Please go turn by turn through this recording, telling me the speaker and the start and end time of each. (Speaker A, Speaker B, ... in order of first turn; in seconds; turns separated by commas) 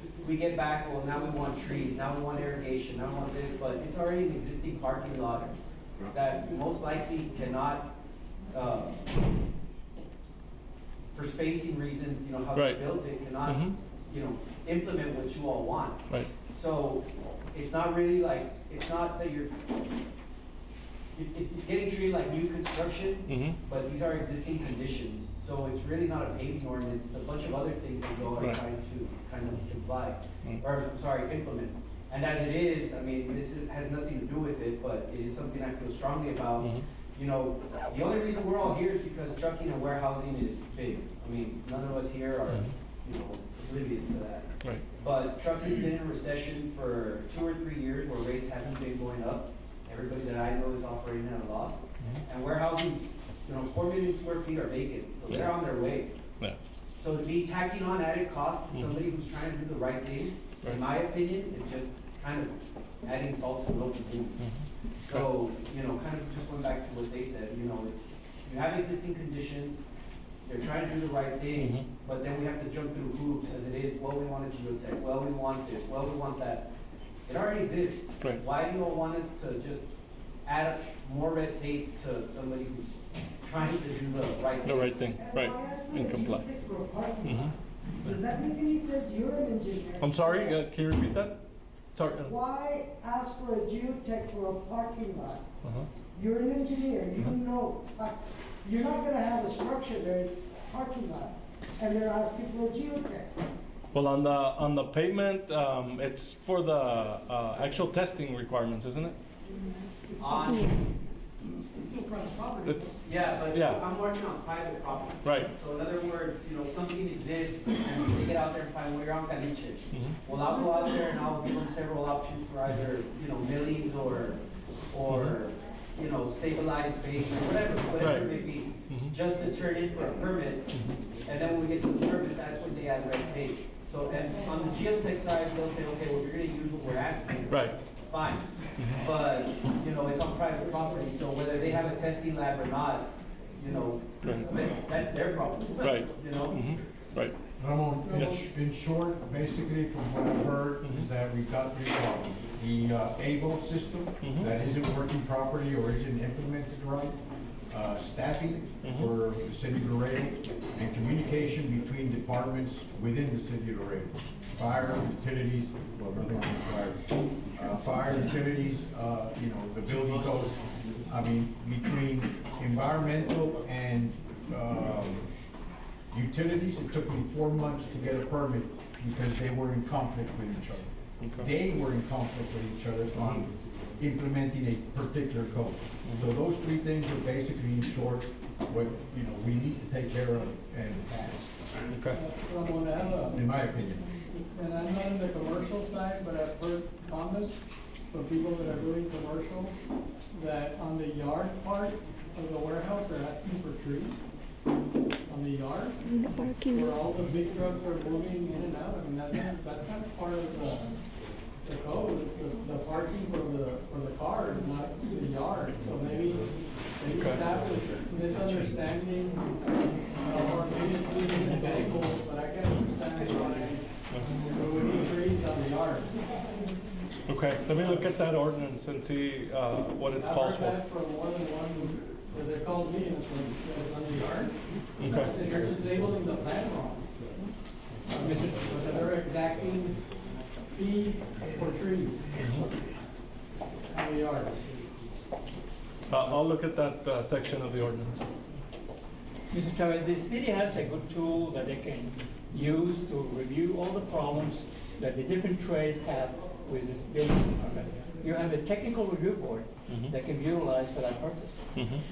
Speaker A: 0.2-5.5, Speaker A: 6.1-7.9, Speaker A: 8.5-8.9, Speaker A: 11.1-19.5, Speaker B: 12.6-12.8, Speaker B: 13.4-13.8, Speaker A: 21.1-56.1, Speaker B: 23.3-23.6, Speaker B: 55.3-55.5, Speaker A: 57.0-64.4, Speaker B: 64.4-65.3, Speaker A: 65.0-69.8, Speaker A: 70.5-76.7, Speaker B: 71.6-71.9, Speaker A: 77.3-79.9, Speaker A: 80.5-85.0, Speaker B: 84.6-86.5, Speaker C: 85.1-90.6, Speaker B: 87.2-87.5, Speaker B: 90.0-91.4, Speaker B: 92.0-92.3, Speaker C: 92.2-95.4, Speaker C: 96.2-103.3, Speaker B: 103.9-109.2, Speaker A: 110.2-110.8, Speaker D: 111.7-113.0, Speaker B: 112.7-113.0, Speaker A: 113.0-124.4, Speaker B: 113.5-113.8, Speaker B: 115.2-115.5, Speaker B: 119.9-120.2, Speaker A: 124.9-130.7, Speaker B: 125.1-125.3, Speaker B: 128.0-128.3, Speaker B: 128.9-129.2, Speaker A: 131.2-146.7, Speaker B: 137.5-137.8, Speaker B: 144.2-144.5, Speaker B: 145.8-147.4, Speaker E: 147.6-157.2, Speaker D: 148.0-148.4, Speaker B: 154.2-154.5, Speaker E: 157.7-167.1, Speaker B: 158.8-159.1, Speaker E: 167.6-175.3, Speaker E: 176.1-191.7, Speaker B: 181.2-181.5, Speaker B: 183.2-183.4, Speaker B: 186.1-186.3, Speaker B: 191.9-192.2, Speaker D: 192.1-193.4, Speaker E: 193.3-194.1, Speaker D: 194.5-197.5, Speaker D: 198.1-199.7, Speaker D: 200.3-204.2, Speaker D: 205.3-210.9, Speaker D: 211.6-226.1, Speaker B: 217.1-217.5, Speaker B: 227.3-230.8, Speaker D: 230.2-237.1, Speaker B: 235.0-235.4, Speaker D: 238.1-240.0, Speaker D: 240.7-242.2, Speaker B: 242.4-242.6, Speaker D: 243.9-244.6, Speaker B: 246.1-248.3, Speaker F: 249.5-261.6, Speaker B: 259.9-260.1, Speaker B: 261.8-262.0